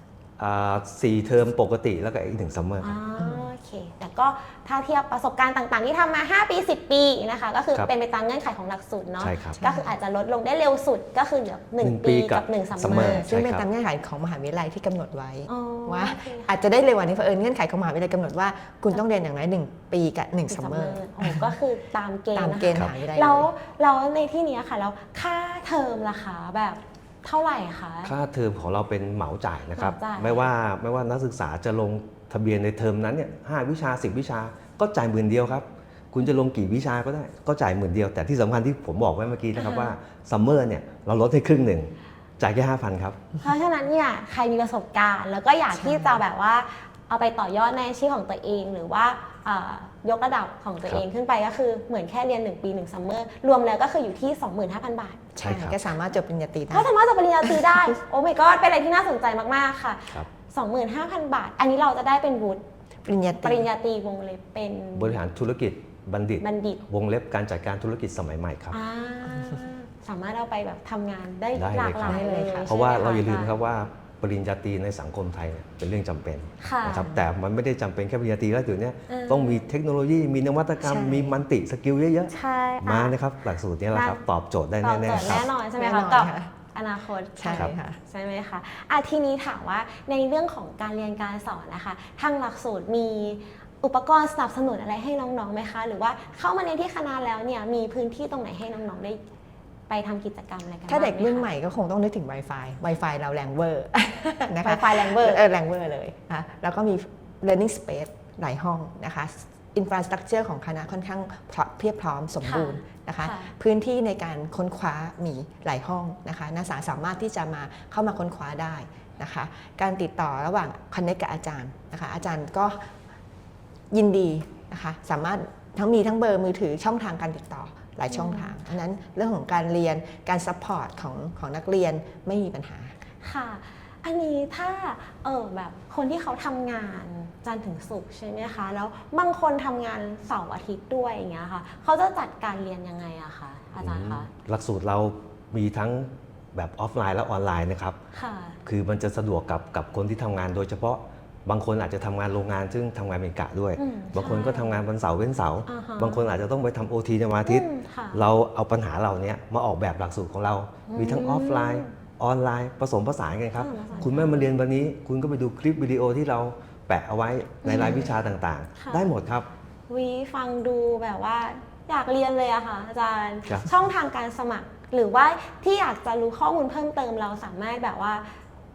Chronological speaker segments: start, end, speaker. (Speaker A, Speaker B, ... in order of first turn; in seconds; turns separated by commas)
Speaker A: 0.4-3.0, Speaker B: 2.8-13.3, Speaker C: 3.2-3.5, Speaker A: 9.2-9.6, Speaker C: 9.6-9.9, Speaker A: 11.8-13.7, Speaker C: 12.8-21.5, Speaker B: 15.5-16.5, Speaker B: 20.5-28.1, Speaker C: 22.3-23.5, Speaker A: 28.0-43.2, Speaker B: 29.8-30.5, Speaker B: 39.5-40.0, Speaker B: 43.4-55.2, Speaker C: 45.7-46.2, Speaker A: 55.4-55.9, Speaker C: 55.4-56.9, Speaker B: 56.7-62.6, Speaker C: 57.4-57.9, Speaker C: 63.0-63.7, Speaker B: 63.4-65.2, Speaker A: 64.9-68.8, Speaker B: 66.4-66.8, Speaker B: 68.7-73.5, Speaker A: 71.5-85.5, Speaker C: 72.0-72.7, Speaker B: 76.6-77.1, Speaker B: 79.1-79.6, Speaker C: 80.8-81.4, Speaker B: 82.3-83.1, Speaker B: 83.9-84.2, Speaker B: 84.8-99.2, Speaker C: 85.2-86.5, Speaker C: 87.4-88.0, Speaker B: 99.9-101.5, Speaker C: 100.9-122.9, Speaker B: 104.6-105.4, Speaker B: 112.4-113.5, Speaker C: 123.9-132.9, Speaker B: 128.1-128.5, Speaker B: 133.2-144.3, Speaker A: 143.8-148.0, Speaker B: 148.1-148.6, Speaker A: 148.7-169.5, Speaker B: 153.8-154.8, Speaker B: 155.7-156.3, Speaker B: 157.4-158.2, Speaker B: 160.9-161.9, Speaker B: 163.6-164.5, Speaker B: 167.6-168.2, Speaker C: 167.7-168.1, Speaker B: 168.8-169.1, Speaker B: 169.9-178.3